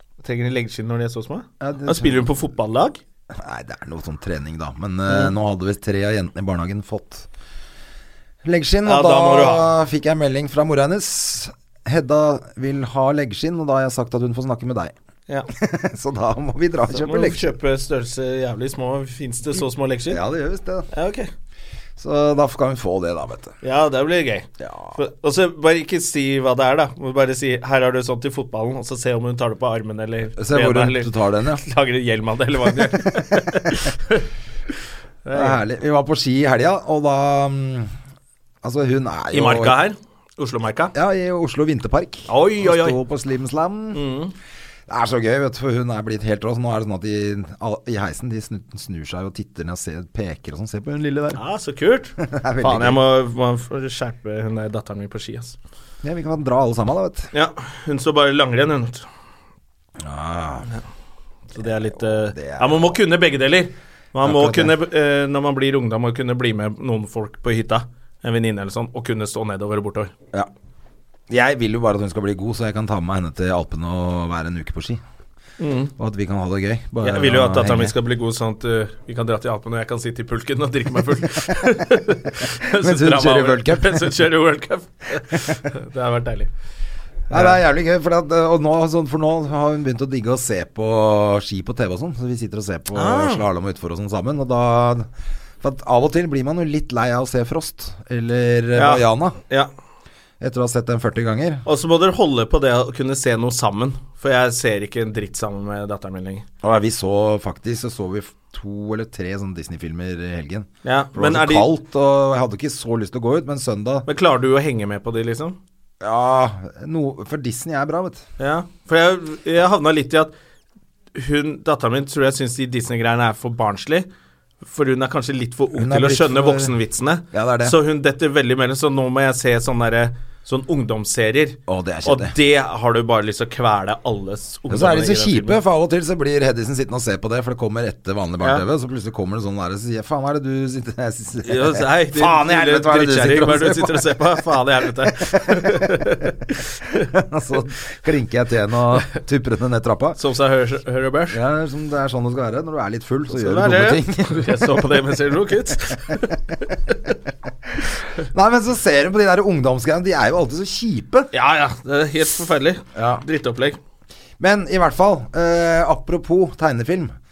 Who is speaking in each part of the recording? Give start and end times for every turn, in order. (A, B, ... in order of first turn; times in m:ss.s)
0:00.2-0:03.0 A
0:01.6-0:02.2 B
0:03.3-0:07.3 B
0:08.4-0:14.9 B
0:08.8-0:09.7 A
0:15.5-0:17.5 B
0:16.9-0:20.2 A
0:20.1-0:20.9 B
0:20.9-0:21.3 A
0:22.0-0:23.5 B
0:23.6-0:34.3 A
0:24.6-0:25.0 B
0:30.4-0:31.6 B
0:32.8-0:33.6 B
0:35.2-0:35.6 A
0:35.3-0:37.9 B
0:38.6-0:39.8 B
0:39.3-0:40.9 A
0:40.9-0:44.0 B
0:42.3-0:43.0 A
0:43.9-0:44.3 A
0:44.9-0:51.4 B
0:51.4-0:55.6 A
0:52.2-0:53.0 B
0:56.0-0:57.3 B
0:57.3-0:59.1 A
1:00.0-1:00.7 B
1:01.5-1:10.1 A
1:02.0-1:03.0 B
1:04.2-1:04.7 B
1:11.3-1:15.0 B
1:15.6-1:15.9 A
1:16.0-1:17.9 B
1:17.0-1:26.5 A
1:22.7-1:24.2 B
1:25.3-1:25.6 B
1:27.3-1:27.6 A
1:27.3-1:35.1 B
1:32.9-1:33.4 A
1:35.6-1:39.4 B
1:38.8-1:39.7 A
1:40.4-1:41.6 B
1:41.6-1:46.4 A
1:46.6-1:54.1 B
1:50.8-1:51.7 A
1:54.1-1:55.6 A
1:56.0-1:58.2 B
1:58.4-2:00.3 A
2:01.1-2:04.1 A
2:04.6-2:15.6 A
2:05.7-2:06.7 B
2:07.3-2:07.8 B
2:11.7-2:12.3 B
2:14.7-2:24.2 B
2:21.4-2:27.1 A
2:27.1-2:30.2 B
2:30.2-2:31.4 A
2:31.3-2:34.8 B
2:33.3-2:37.1 A
2:38.3-2:41.3 B
2:41.3-2:43.8 A
2:43.0-2:43.2 B
2:44.4-2:47.2 B